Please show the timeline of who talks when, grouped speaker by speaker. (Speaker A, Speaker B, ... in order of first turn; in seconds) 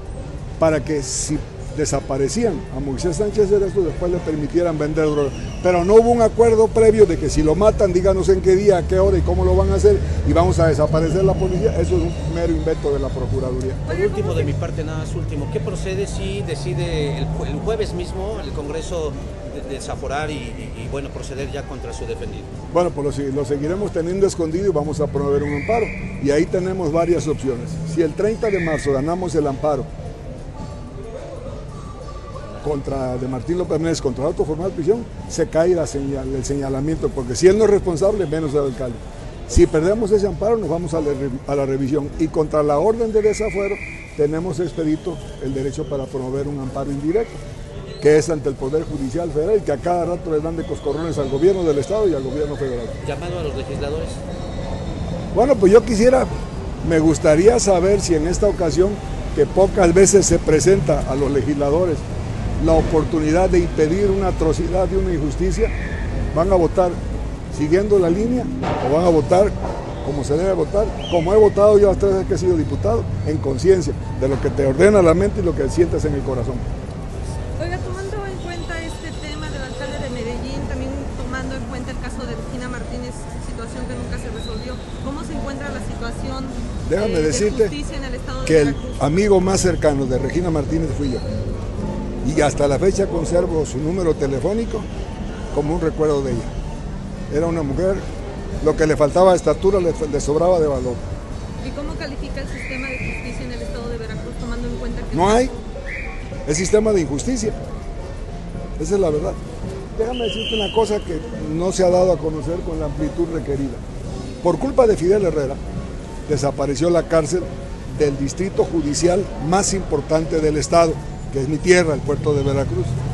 Speaker A: 0.6-13.8, 22.7-29.9, 32.6-47.4, 48.0-53.0, 55.3-56.3, 56.8-62.0, 62.6-65.7, 66.3-67.0, 67.5-76.7, 86.8-87.8, 88.4-91.2, 92.2-94.9, 95.5-96.5, 97.3-98.0, 98.6-101.0, 105.1-105.5, 106.5-107.6, 108.8-109.4, 110.0-113.8, 114.4-115.6, 116.3-122.9
Speaker B: 13.9-14.5, 77.6-89.0, 101.6-105.5
Speaker C: 13.9-22.5, 53.0-54.2